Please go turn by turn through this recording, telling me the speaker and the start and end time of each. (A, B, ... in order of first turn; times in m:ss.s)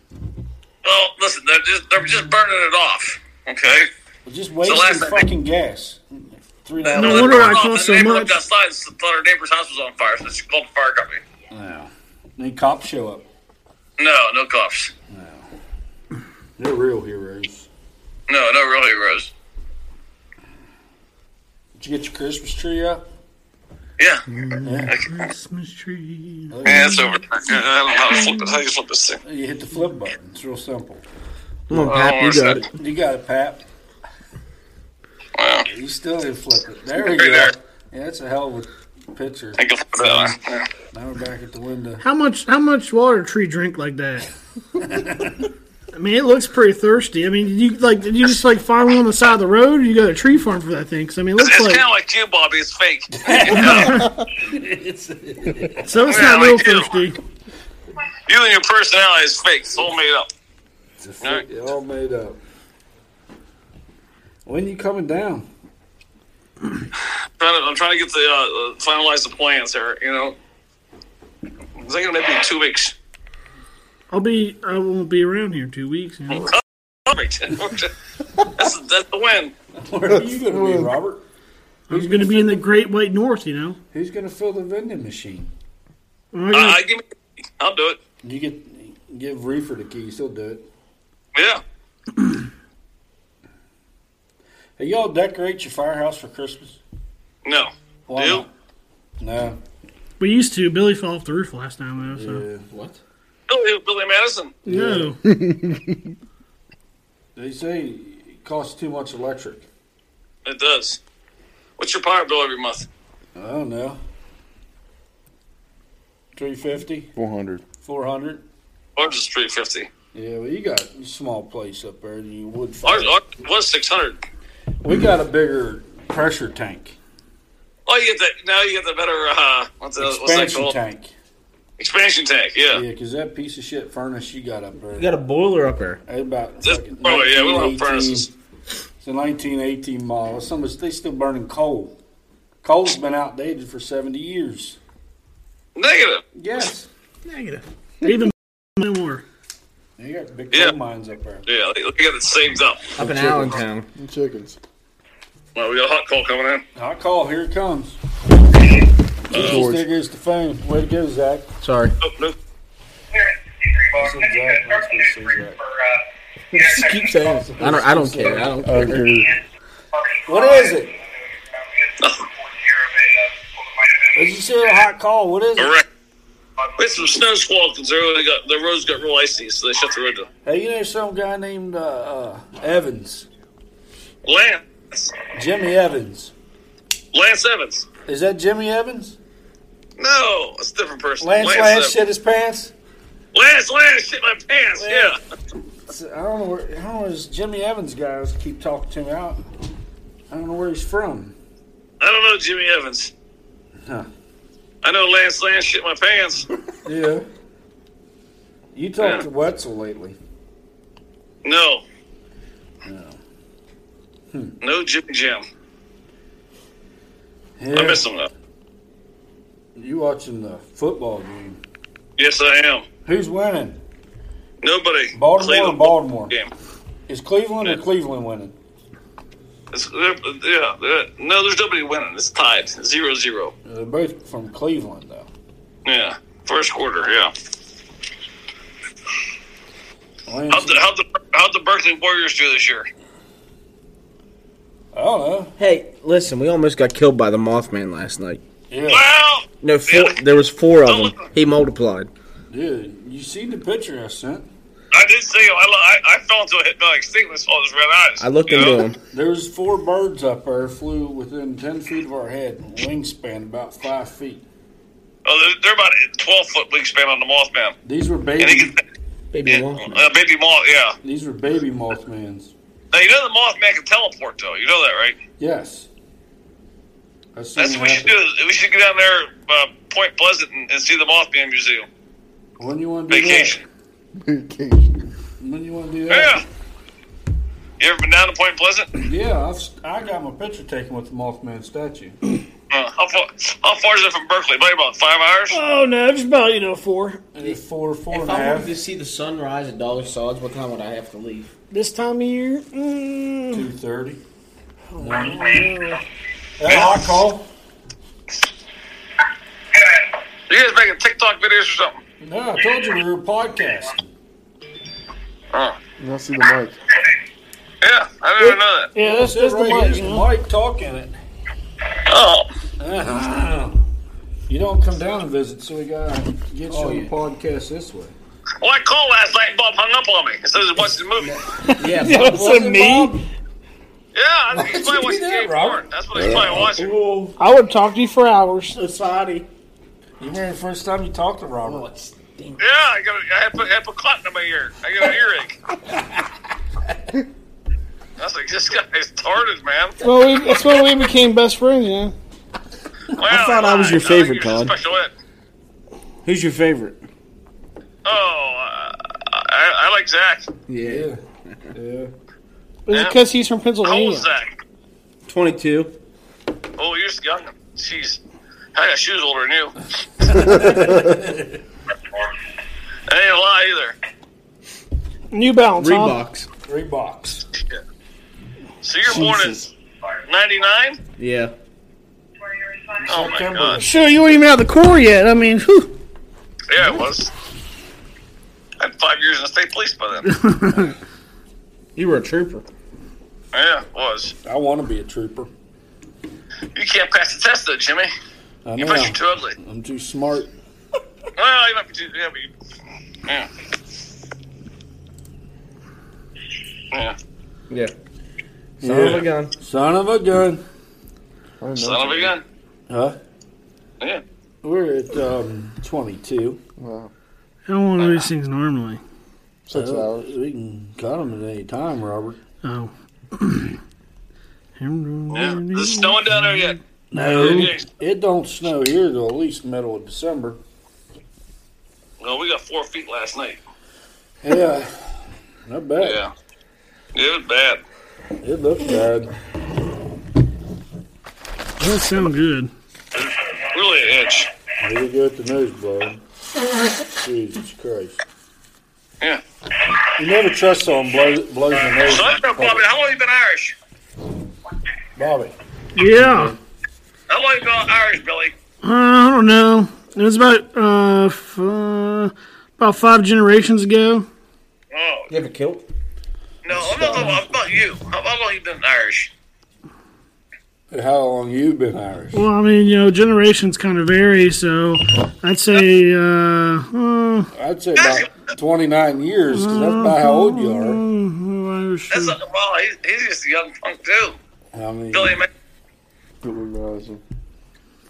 0:00.8-0:03.9 A
0:04.2-0:07.6 B
0:04.6-0:05.3 A
0:06.8-0:11.2 A
0:07.0-0:08.4 C
0:11.5-0:13.2 B
0:14.0-0:14.9 A
0:15.1-0:15.5 B
0:16.6-0:17.7 B
0:18.3-0:19.3 A
0:21.8-0:23.0 B
0:24.0-0:24.2 A
0:24.3-0:27.0 C
0:24.6-0:25.0 B
0:26.5-0:27.1 B
0:26.6-0:29.2 A
0:29.2-0:31.0 B
0:31.7-0:32.7 D
0:31.7-0:32.6 A
0:32.7-0:33.6 B
0:35.4-0:35.7 A
0:35.7-0:40.4 B
0:37.1-0:37.5 A
0:39.6-0:40.7 A
0:40.9-0:42.0 B
0:42.0-0:44.3 C
0:44.8-0:45.5 B
0:45.9-0:51.8 C
0:51.4-0:54.1 A
0:53.1-0:56.2 B
0:53.5-0:54.2 C
0:55.8-0:57.2 C
0:56.1-0:57.0 A
0:58.3-1:00.3 A
1:01.0-1:02.4 B
1:04.4-1:05.5 B
1:07.4-1:10.4 A
1:11.8-1:12.9 A
1:14.1-1:16.5 C
1:16.3-1:17.9 A
1:18.4-1:19.5 A
1:19.8-1:21.2 B
1:20.1-1:21.0 E
1:21.9-1:23.8 C
1:21.9-1:22.7 B
1:23.9-1:25.5 B
1:26.3-1:26.8 C
1:26.5-1:27.0 A
1:27.6-1:28.0 A
1:28.2-1:30.7 B
1:31.4-1:31.6 A
1:34.8-1:36.8 B
1:37.4-1:38.4 A
1:38.1-1:38.5 B
1:39.2-1:39.6 B
1:40.2-1:42.4 C
1:42.1-1:42.7 B
1:42.7-1:43.0 D
1:43.5-1:44.6 A
1:44.6-1:45.2 C
1:44.7-1:45.2 B
1:45.2-1:46.0 E
1:47.4-1:49.7 B
1:50.4-1:51.0 A
1:51.8-1:52.9 A
1:53.4-1:54.0 B
1:56.4-1:57.1 B
1:57.2-1:57.6 E
1:57.8-1:58.4 B
1:59.0-1:59.9 A
2:00.1-2:03.2 B
2:02.8-2:04.2 A
2:04.8-2:07.0 B
2:07.9-2:10.7 A
2:10.0-2:11.1 B
2:11.8-2:12.8 A
2:12.7-2:15.1 B
2:15.0-2:16.0 D
2:16.1-2:18.3 B
2:16.6-2:18.3 A
2:19.0-2:22.0 B
2:22.6-2:24.8 B
2:25.8-2:26.2 A
2:26.4-2:26.9 B
2:27.2-2:27.6 D
2:28.0-2:29.2 C
2:30.0-2:31.5 B
2:31.5-2:32.8 A
2:33.0-2:33.9 D
2:33.0-2:34.6 E
2:35.6-2:36.6 A
2:36.8-2:38.0 B
2:39.3-2:39.9 E
2:39.3-2:41.5 B
2:39.3-2:39.6 A
2:41.6-2:42.0 D
2:42.0-2:42.4 A
2:43.9-2:45.7 B
2:46.5-2:49.1 D
2:47.3-2:48.6 B
2:48.6-2:49.4 E
2:50.3-2:51.0 B
2:52.0-2:52.3 A
2:54.1-2:55.8 B
2:55.6-2:55.8 A
2:56.8-3:00.3 A
3:00.4-3:03.3 B
3:04.2-3:05.2 A
3:05.3-3:06.3 B
3:07.1-3:07.9 A
3:08.1-3:09.2 B
3:10.0-3:11.9 A
3:11.2-3:12.7 B
3:13.3-3:15.2 A
3:14.8-3:15.2 B
3:15.9-3:19.4 B
3:20.3-3:21.4 B
3:22.0-3:23.1 A
3:23.8-3:24.1 B
3:24.8-3:26.5 A
3:26.8-3:27.3 B
3:28.7-3:30.2 B
3:31.4-3:31.8 A
3:32.8-3:33.2 B
3:34.3-3:34.6 B
3:34.6-3:35.4 A
3:37.6-3:38.0 B
3:37.7-3:38.3 A
3:39.8-3:41.6 B
3:42.2-3:42.8 A
3:43.0-3:43.8 B
3:44.6-3:46.5 A
3:45.1-3:46.3 B
3:47.1-3:48.6 B
3:49.7-3:53.5 A
3:53.6-3:55.3 B
3:55.8-3:57.3 A
4:00.3-4:00.8 B
4:00.5-4:02.9 A
4:04.9-4:05.6 B
4:05.6-4:08.4 D
4:08.7-4:09.1 B
4:08.9-4:10.2 A
4:09.6-4:12.1 D
4:10.8-4:11.2 A
4:12.5-4:14.5 B
4:14.9-4:18.9 A
4:18.2-4:19.0 D
4:19.1-4:24.4 B
4:25.2-4:27.8 A
4:27.8-4:28.8 B
4:28.4-4:28.8 A
4:29.3-4:30.1 D
4:29.5-4:31.0 A
4:31.0-4:32.5 B
4:32.9-4:35.2 A
4:35.4-4:35.9 B
4:37.3-4:38.2 B
4:37.6-4:41.9 A
4:42.6-4:43.6 B
4:43.1-4:43.6 A
4:44.2-4:45.0 E
4:45.4-4:46.4 B
4:46.1-4:46.4 A
4:47.8-4:48.9 A
4:49.0-4:52.2 B
4:52.7-4:55.6 A
4:55.5-4:57.3 C
4:57.3-4:58.7 B
4:58.1-5:01.5 D
5:01.7-5:03.7 C
5:03.5-5:04.2 B
5:04.9-5:06.0 C
5:05.0-5:05.7 B
5:06.6-5:07.5 B
5:06.7-5:07.0 A
5:10.5-5:12.0 A
5:12.2-5:14.1 B
5:16.0-5:16.8 E
5:17.8-5:18.9 A
5:18.4-5:20.3 C
5:19.0-5:21.2 B
5:22.1-5:22.5 A
5:22.8-5:23.8 B
5:24.5-5:28.1 B
5:26.7-5:27.1 D
5:28.6-5:31.4 A
5:31.6-5:33.2 C
5:31.8-5:32.5 D
5:31.9-5:33.2 B
5:34.1-5:36.9 A
5:34.5-5:35.8 B
5:36.2-5:37.4 D
5:37.4-5:38.8 C
5:38.7-5:39.5 D
5:40.2-5:41.9 B
5:41.6-5:42.6 D
5:42.6-5:45.6 A
5:48.2-5:50.0 A
5:50.0-5:52.1 C
5:53.2-5:55.1 A
5:53.2-5:54.7 D
5:56.2-5:57.0 D
5:58.0-6:00.5 A
6:00.7-6:01.7 D
6:00.8-6:01.2 B
6:01.7-6:02.1 B
6:02.9-6:04.3 C
6:03.8-6:04.5 A
6:05.3-6:05.9 D
6:06.8-6:08.2 A
6:08.8-6:09.8 A
6:10.2-6:11.6 B
6:10.6-6:11.1 E
6:13.1-6:14.0 A
6:15.3-6:16.2 C
6:15.8-6:16.5 D
6:16.7-6:17.4 B
6:18.8-6:19.7 A
6:20.3-6:21.0 A
6:21.2-6:21.5 D
6:23.0-6:24.4 B
6:23.0-6:23.8 A
6:23.8-6:26.0 C
6:26.7-6:27.3 A
6:28.8-6:30.3 A
6:30.2-6:31.0 C
6:32.0-6:32.7 D
6:33.5-6:34.3 A
6:34.4-6:35.5 B
6:36.8-6:38.1 A
6:38.6-6:40.5 B
6:38.8-6:39.6 A
6:41.4-6:42.5 A
6:48.8-6:49.5 D
6:48.8-6:50.6 B
6:51.6-6:52.3 E
6:51.8-6:52.4 A
6:52.9-6:53.2 B
6:54.6-6:56.6 B
6:56.8-6:57.1 E
6:57.7-6:59.0 C
6:58.0-6:58.3 A
6:59.7-7:00.3 E
6:59.7-7:02.4 B
7:02.6-7:03.8 C
7:04.8-7:06.8 C
7:05.3-7:07.8 A
7:07.1-7:10.6 B
7:12.2-7:13.6 A
7:14.4-7:16.2 B
7:16.0-7:16.3 A
7:17.2-7:17.8 A
7:18.4-7:19.3 B
7:21.8-7:22.7 C
7:23.2-7:24.5 A
7:24.8-7:26.2 B
7:27.1-7:28.2 B
7:30.2-7:32.8 B
7:31.8-7:33.8 A
7:35.2-7:35.5 B
7:36.0-7:36.6 C
7:36.1-7:36.6 B
7:37.3-7:38.5 A
7:38.8-7:44.3 C
7:44.9-7:45.3 A
7:45.3-7:45.9 D
7:46.6-7:49.3 A
7:46.8-7:47.4 D
7:50.9-7:52.5 B
7:52.3-7:57.5 C
7:57.5-8:01.0 B
7:58.0-7:58.3 A
7:59.5-8:02.4 C
8:02.1-8:04.4 A
8:04.7-8:05.4 B
8:05.1-8:05.5 A
8:06.4-8:07.2 E